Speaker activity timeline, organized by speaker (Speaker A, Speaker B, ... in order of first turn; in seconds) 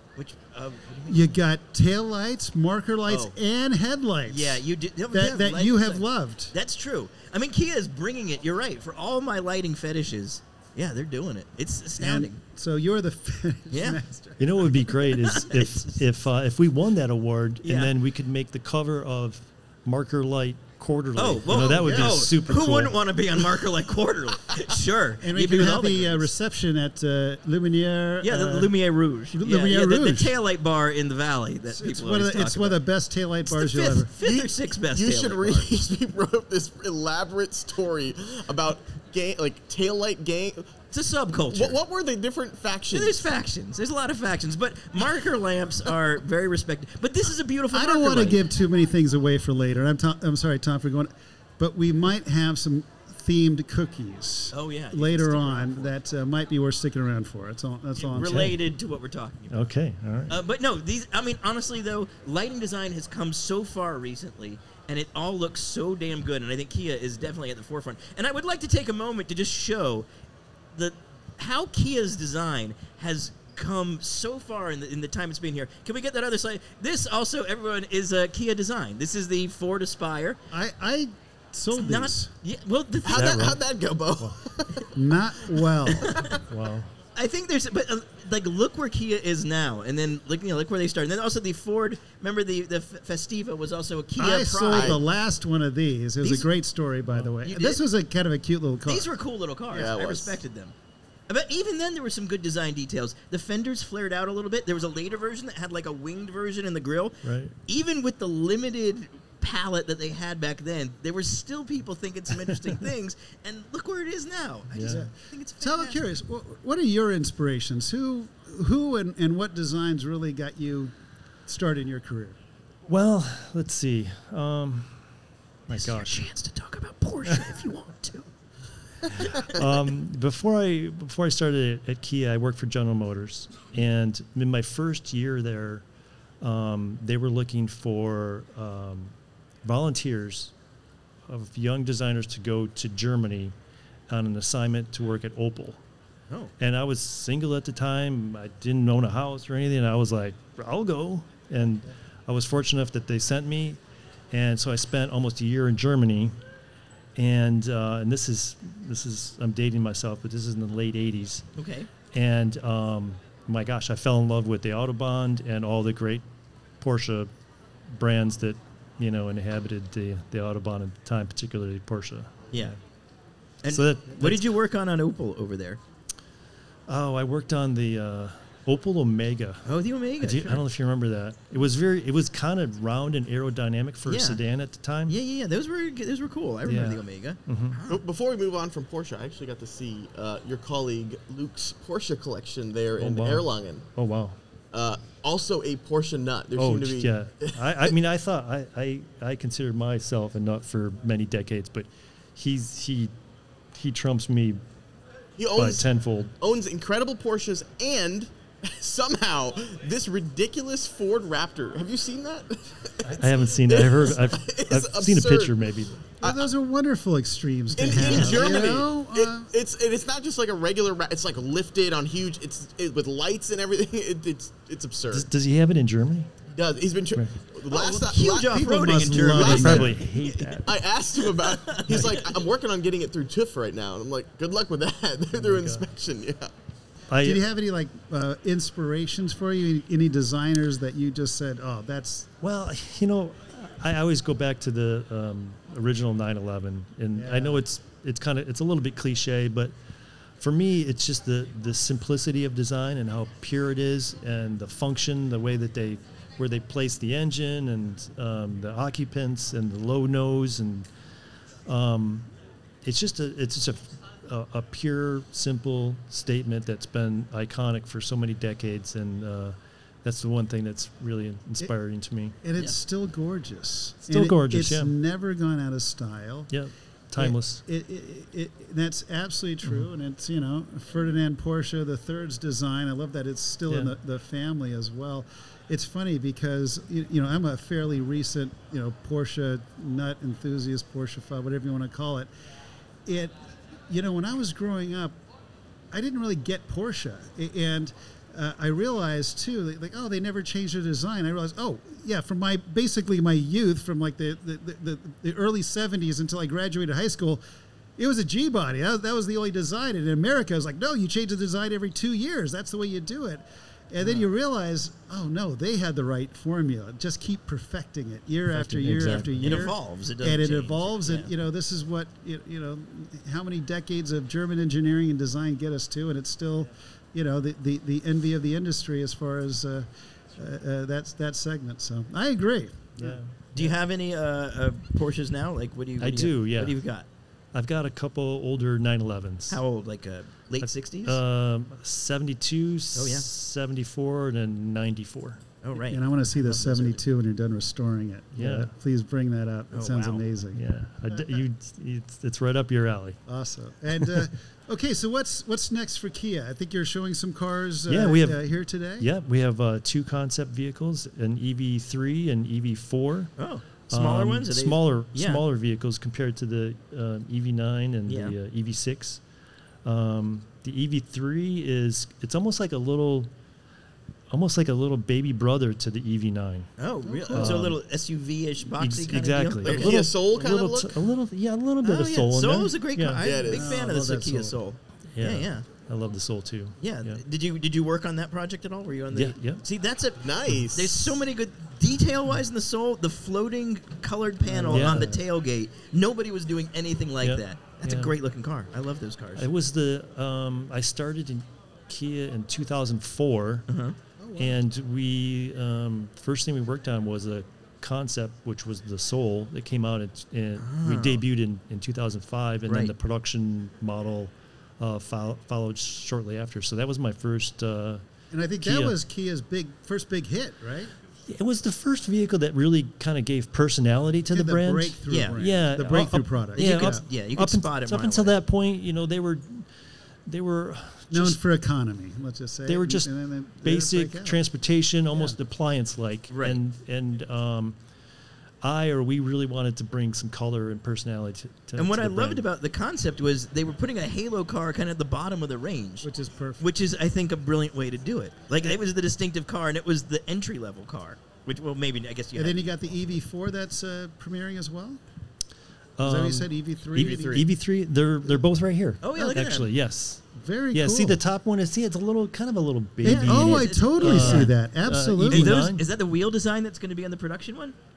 Speaker A: 0.2-1.3, 3.1-3.3, 4.3-12.4, 13.7-14.0, 15.2-16.0, 17.6-17.9, 21.2-26.3, 28.2-32.8, 33.5-35.7, 40.9-41.8, 42.9-48.4, 54.5-55.9, 58.0-59.6, 60.3-70.1, 70.7-80.4, 81.7-83.6, 85.9-86.4, 87.2-95.0, 96.2-96.5, 97.4-97.8, 98.9-100.7, 101.3-116.0, 125.7-128.3, 129.2-129.5, 161.6-161.9, 173.6-175.8, 179.7-180.7, 184.1-184.4, 185.1-188.0, 218.0-218.7, 227.7-232.3, 319.4-321.3, 333.5-337.1, 339.5-341.2, 342.9-343.3, 345.6-347.0, 349.7-350.3, 363.4-365.4, 368.1-368.4, 376.8-380.0, 381.8-385.7, 386.8-399.5, 403.7-404.0, 410.6-411.2, 412.7-412.9, 425.1-425.4, 426.6-428.4, 436.3-436.6, 441.8-446.1, 446.6-452.6, 459.0-459.7, 463.0-464.5, 465.3-467.8
Speaker B: 1.1-6.5, 12.0-14.7, 21.8-22.1, 25.2-28.7, 29.3-30.3, 31.7-34.1, 47.7-58.5, 80.5-82.3, 85.0-86.2, 94.2-99.1, 114.8-120.9, 121.5-122.4, 216.2-219.5, 228.5-229.9, 237.2-242.3, 247.2-247.6, 272.4-276.5, 277.2-292.3, 293.1-293.3, 293.9-295.2, 295.9-307.4, 308.0-333.2, 345.8-351.4, 353.3-359.1, 377.0-377.6, 383.5-384.6, 394.4-395.2, 404.2-404.6, 418.3-420.9, 424.3-427.0, 431.1-434.4, 446.0-446.7, 452.4-455.0, 456.0-457.5, 460.4-461.2, 463.0-465.6
Speaker C: 14.4-23.0, 58.3-58.5, 59.5-60.4, 83.1-83.6, 86.4-86.9, 107.2-107.5, 114.7-115.0, 122.9-125.0, 125.7-126.2, 129.4-135.8, 136.4-140.5, 141.3-143.5, 144.1-145.8, 146.6-153.8, 154.3-156.3, 157.2-161.5, 162.1-166.2, 166.8-167.3, 167.9-172.7, 173.7-174.5, 176.9-179.6, 180.2-185.2, 186.7-187.8, 193.0-194.4, 196.6-203.1, 203.7-204.6, 205.5-206.3, 213.0-216.0, 218.0-218.6, 225.1-226.3, 229.3-230.8, 235.4-235.9, 237.1-237.4, 242.4-249.7, 250.4-260.9, 261.7-262.3, 262.8-272.4, 274.1-274.9, 276.5-277.6, 279.6-279.9, 283.7-283.9, 318.5-319.7, 333.0-333.7, 336.0-336.8, 337.5-339.6, 340.6-345.4, 348.4-348.7, 350.5-353.2, 357.9-358.4, 359.0-363.3, 363.9-369.2, 369.8-373.3, 374.3-376.7, 377.3-377.8, 378.8-383.2, 385.1-387.2, 389.1-389.6, 394.7-395.2, 397.2-398.2, 399.4-403.7, 404.4-418.0, 418.6-419.0, 421.3-429.7, 430.3-431.4, 432.7-433.1, 433.6-437.8, 438.6-442.4, 456.0-465.8
Speaker D: 34.2-40.7, 41.5-43.2, 83.0-84.9, 86.1-86.4, 94.7-95.0, 99.7-100.4, 187.9-193.9, 194.7-197.7, 205.4-205.9, 206.4-215.6, 216.2-216.5, 217.7-225.3, 226.5-229.9, 230.6-236.5, 379.6-381.0, 383.2-383.8, 390.2-391.2, 456.9-457.5